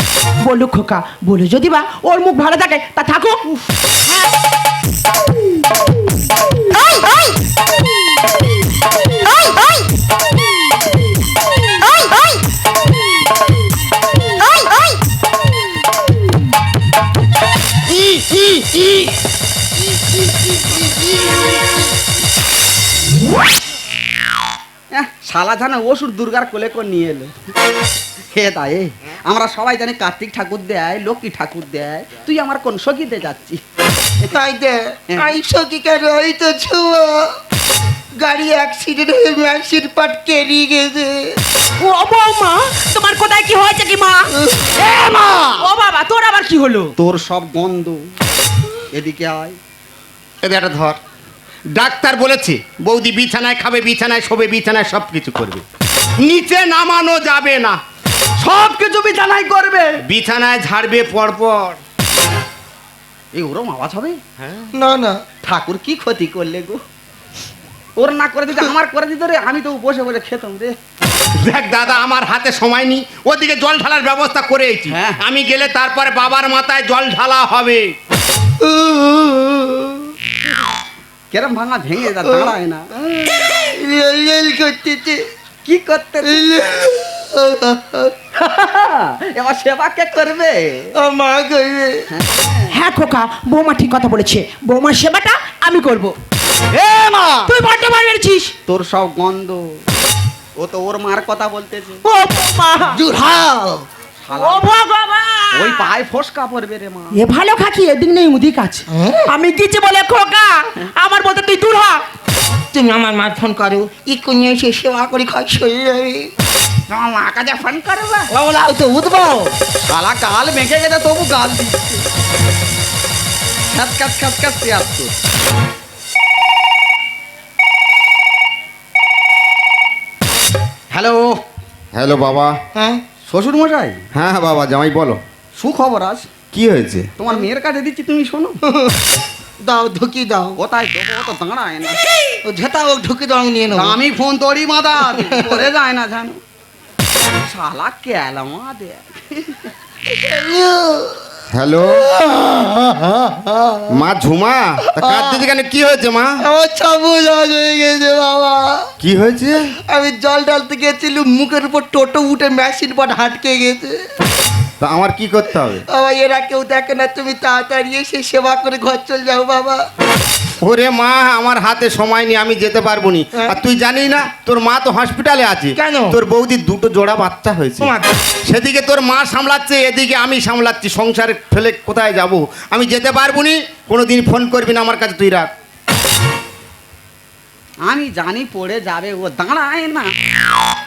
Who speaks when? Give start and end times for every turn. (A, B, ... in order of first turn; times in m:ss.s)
0:00.4-0:03.4 A
0:18.0-0:18.9 B
0:24.9-0:27.3 B
0:28.3-0:33.6 B
0:34.3-0:37.4 C
0:35.1-0:35.4 B
0:38.2-0:41.4 C
0:41.8-0:44.3 A
0:44.8-0:45.5 B
0:45.6-0:46.9 A
0:47.0-0:48.0 B
0:48.9-0:49.6 B
0:50.4-0:51.0 D
0:51.7-0:55.6 D
0:56.2-0:57.8 D
0:58.4-1:00.0 B
1:00.0-1:01.8 D
1:03.3-1:04.2 B
1:04.4-1:04.7 D
1:04.7-1:05.2 C
1:05.4-1:06.8 B
1:08.0-1:10.8 B
1:11.4-1:17.9 D
1:14.9-1:15.2 B
1:18.6-1:20.1 C
1:21.3-1:23.3 B
1:22.2-1:22.5 C
1:23.2-1:25.2 C
1:25.6-1:26.5 B
1:26.2-1:28.1 C
1:28.3-1:30.9 B
1:30.9-1:32.1 C
1:32.1-1:32.7 B
1:32.7-1:36.1 A
1:36.8-1:37.4 B
1:37.0-1:37.3 C
1:37.4-1:38.5 A
1:38.7-1:39.8 B
1:40.6-1:42.0 B
1:42.0-1:43.0 A
1:42.9-1:43.8 C
1:44.2-1:44.7 B
1:44.3-1:45.9 A
1:45.5-1:47.1 B
1:47.1-1:52.0 A
1:48.9-1:49.2 C
1:52.7-1:56.3 C
1:56.9-1:58.3 B
1:58.3-1:59.5 C
1:59.9-2:02.0 B
2:03.7-2:05.2 B
2:10.9-2:11.4 B
2:11.9-2:12.6 D
2:12.7-2:13.0 C
2:13.2-2:14.0 B
2:14.1-2:15.2 D
2:15.5-2:16.3 B
2:16.5-2:17.1 D
2:17.2-2:18.6 B
2:19.6-2:20.6 C
2:20.6-2:22.0 B
2:22.4-2:24.0 C
2:23.7-2:26.4 B
2:25.1-2:25.6 C
2:27.4-2:29.7 B
2:30.1-2:31.3 C
2:31.5-2:32.1 D
2:31.8-2:34.0 C
2:33.9-2:36.4 D
2:34.9-2:35.4 C
2:36.4-2:38.9 C
2:39.0-2:39.8 D
2:39.9-2:44.0 C
2:44.8-2:45.8 D
2:45.9-2:49.9 C
2:50.6-2:57.9 D
2:53.3-2:53.6 C
2:55.8-2:56.2 C
2:57.8-2:58.1 C
2:58.5-3:05.5 D
3:07.8-3:10.1 B